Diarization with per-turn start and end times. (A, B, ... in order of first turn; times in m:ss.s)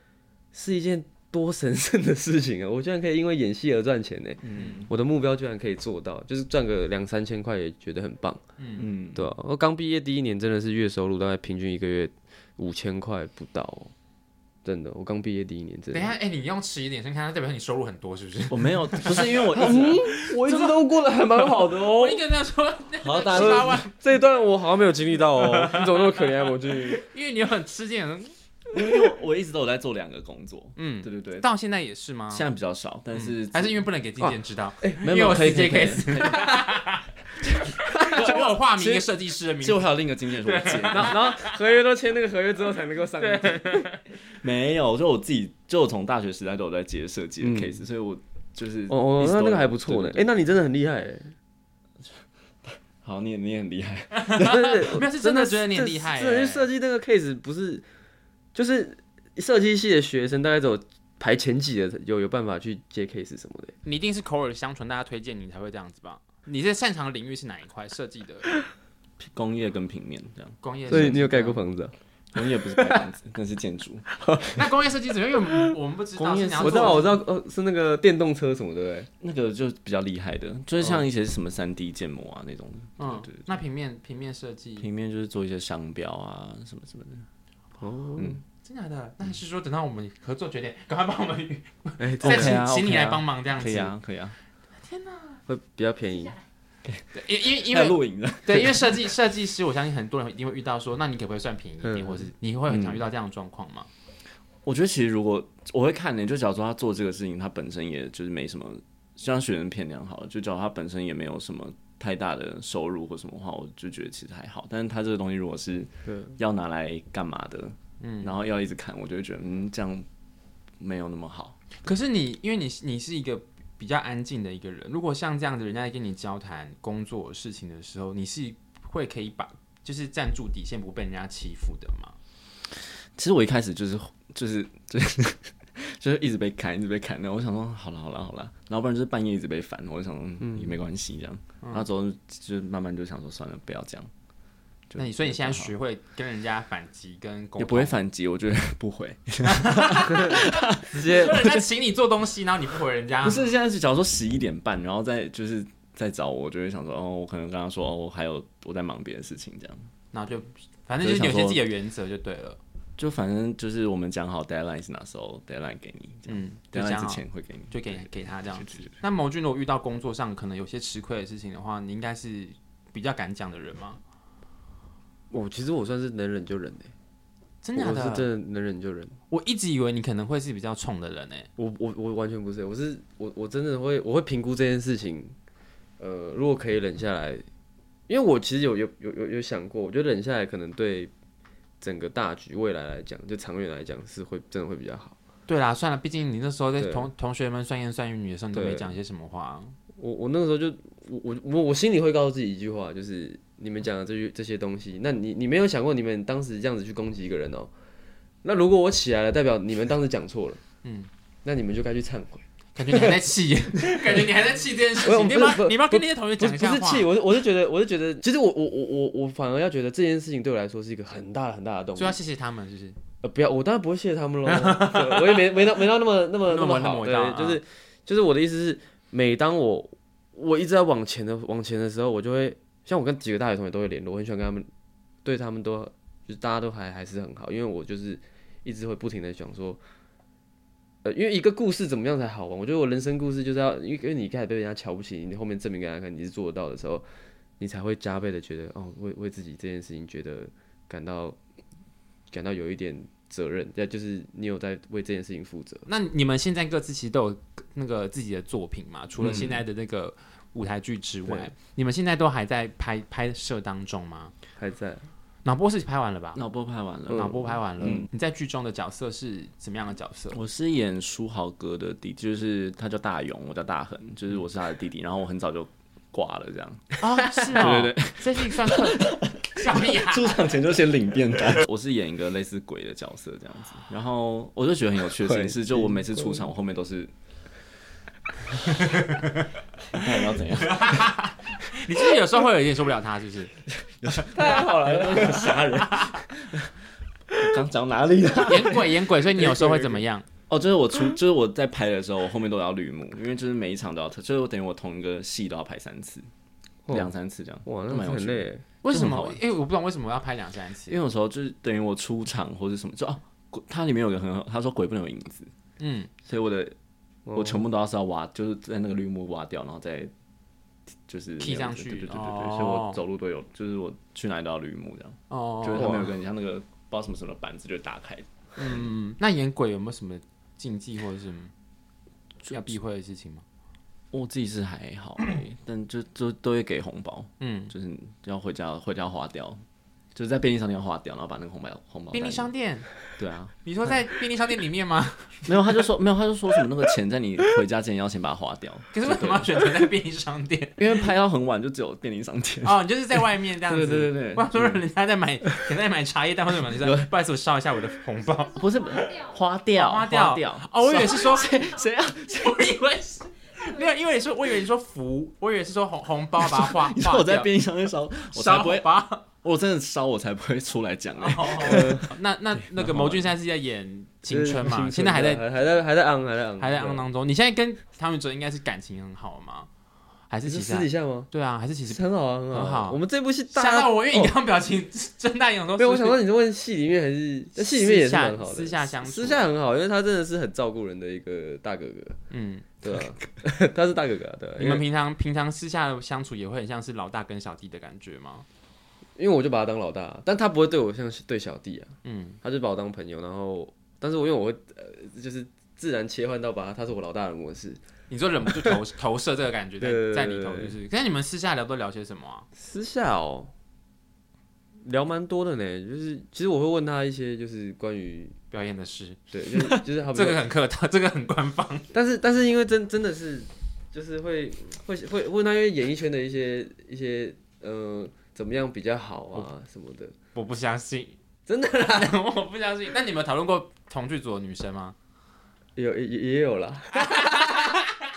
0:00.5-0:08.4 A
0:04.4-0:04.9 B
0:04.5-0:04.8 C
0:08.6-0:08.8 C
0:08.8-0:09.3 B
0:09.1-0:13.9 A
0:14.6-0:16.1 A
0:15.9-0:20.7 C
0:18.5-0:20.0 B
0:19.5-0:22.2 A
0:21.9-0:23.9 C
0:23.0-0:23.8 B
0:23.1-0:27.1 A
0:25.4-0:26.1 C
0:27.0-0:28.3 C
0:28.7-0:31.5 B
0:30.8-0:32.4 C
0:32.3-0:33.9 B
0:33.1-0:37.1 C
0:35.0-0:36.2 B
0:37.6-0:39.9 C
0:37.9-0:38.4 A
0:38.1-0:41.3 B
0:40.4-0:41.6 C
0:40.9-0:43.9 A
0:43.2-0:44.0 C
0:44.3-0:50.3 B
0:47.4-0:47.8 A
0:48.9-0:51.3 A
0:52.6-0:54.8 B
0:54.2-0:56.7 C
0:54.4-0:57.8 A
0:58.6-1:03.8 A
1:03.8-1:08.5 C
1:09.2-1:11.2 B
1:10.6-1:11.6 C
1:10.9-1:11.9 A
1:12.3-1:14.1 B
1:12.8-1:13.0 A
1:14.2-1:14.6 A
1:14.6-1:17.2 C
1:16.2-1:17.0 B
1:16.6-1:19.1 A
1:19.2-1:23.6 B
1:20.8-1:21.1 A
1:23.0-1:24.9 C
1:24.8-1:27.3 B
1:27.8-1:28.4 A
1:28.6-1:33.9 C
1:32.0-1:32.6 A
1:32.2-1:34.4 B
1:34.8-1:35.4 C
1:35.5-1:36.4 A
1:36.8-1:39.1 B
1:37.1-1:43.9 C
1:41.8-1:42.3 A
1:42.7-1:43.1 B
1:44.6-2:00.1 B
1:56.1-1:56.4 A
1:58.0-1:58.3 C
2:00.8-2:01.6 B
2:01.8-2:12.2 C
2:13.2-2:24.1 B
2:20.4-2:20.8 A
2:24.9-2:25.7 B
2:25.0-2:28.0 C
2:27.6-2:31.6 B
2:29.5-2:30.4 C
2:30.9-2:31.6 A
2:30.9-2:33.5 C
2:33.2-2:39.9 B
2:40.1-2:42.6 C
2:41.0-2:41.6 B
2:43.0-2:49.0 B
2:46.3-2:54.0 C
2:55.3-2:56.9 A
2:57.6-2:58.3 C
2:57.8-2:59.2 A
2:59.3-3:01.5 C
3:01.6-3:05.3 A
3:06.0-3:07.4 A
3:08.1-3:11.1 A
3:11.8-3:15.2 A
3:15.5-3:19.8 C
3:16.8-3:17.1 A
3:18.5-3:18.9 A
3:20.0-3:27.7 A
3:28.4-3:30.6 A
3:30.8-3:31.1 C
3:31.4-3:33.2 A
3:32.8-3:37.1 C
3:35.0-3:42.2 A
3:42.0-3:43.0 C
3:43.2-3:54.7 A
3:44.5-3:45.4 C
3:46.5-3:47.6 C
3:55.2-3:59.8 A
4:01.0-4:07.1 A
4:07.6-4:11.4 A
4:12.3-4:15.9 A
4:15.9-4:24.3 C
4:19.2-4:19.6 A
4:21.3-4:21.5 A
4:24.6-4:25.1 A
4:25.4-4:26.4 C
4:26.4-4:28.0 B
4:27.1-4:28.1 A
4:27.1-4:30.4 C
4:30.3-4:37.0 B
4:37.0-4:40.4 C
4:37.6-4:47.1 B
4:45.2-4:46.4 A
4:48.7-4:49.4 C
4:49.9-4:51.2 B
4:50.6-4:53.5 C
4:53.7-4:56.7 B
4:54.3-4:56.2 A
4:54.9-4:56.2 C
4:57.4-4:59.0 B
4:58.5-5:00.3 C
4:59.4-5:00.0 A
5:00.5-5:06.3 B
5:06.9-5:07.1 A
5:06.9-5:09.4 B
5:07.6-5:08.6 A
5:08.8-5:11.0 C
5:10.9-5:15.5 B
5:15.8-5:16.1 C
5:16.2-5:16.8 B
5:17.3-5:17.6 A
5:17.4-5:20.1 B
5:21.1-5:28.9 B
5:21.4-5:23.0 C
5:25.3-5:26.1 C
5:25.8-5:26.0 A
5:28.6-5:31.5 C
5:32.4-5:33.4 C
5:34.1-5:39.6 B
5:37.4-5:37.7 C
5:40.2-5:42.5 B
5:42.1-5:43.0 C
5:43.2-5:43.5 B
5:43.6-5:45.5 C
5:45.5-5:49.5 B
5:48.9-5:51.1 C
5:50.8-5:52.8 B
5:52.6-6:07.5 C
5:53.6-5:54.8 B
5:56.8-5:57.1 B
5:58.5-6:02.6 B
6:06.4-6:13.3 B
6:08.3-6:09.2 C
6:11.2-6:15.4 C
6:11.6-6:12.0 A
6:14.3-6:17.1 A
6:16.6-6:19.7 C
6:20.3-6:22.0 C
6:20.5-6:21.3 A
6:21.9-6:24.4 A
6:22.5-6:23.0 C
6:23.5-6:26.2 C
6:25.8-6:32.2 A
6:27.6-6:29.4 C
6:32.3-6:32.7 C
6:32.8-6:34.8 A
6:34.6-6:38.4 C
6:39.2-6:47.8 A
6:42.0-6:42.4 C
6:48.1-6:52.5 C
6:48.5-6:48.8 A
6:49.8-6:50.7 A
6:52.6-6:53.5 A
6:54.8-6:58.4 A
6:58.5-7:01.9 C
6:59.3-7:00.4 A
7:01.9-7:10.1 A
7:10.4-7:11.2 C
7:11.5-7:12.2 A
7:11.9-7:15.0 C
7:15.8-7:17.9 A
7:17.0-7:18.0 C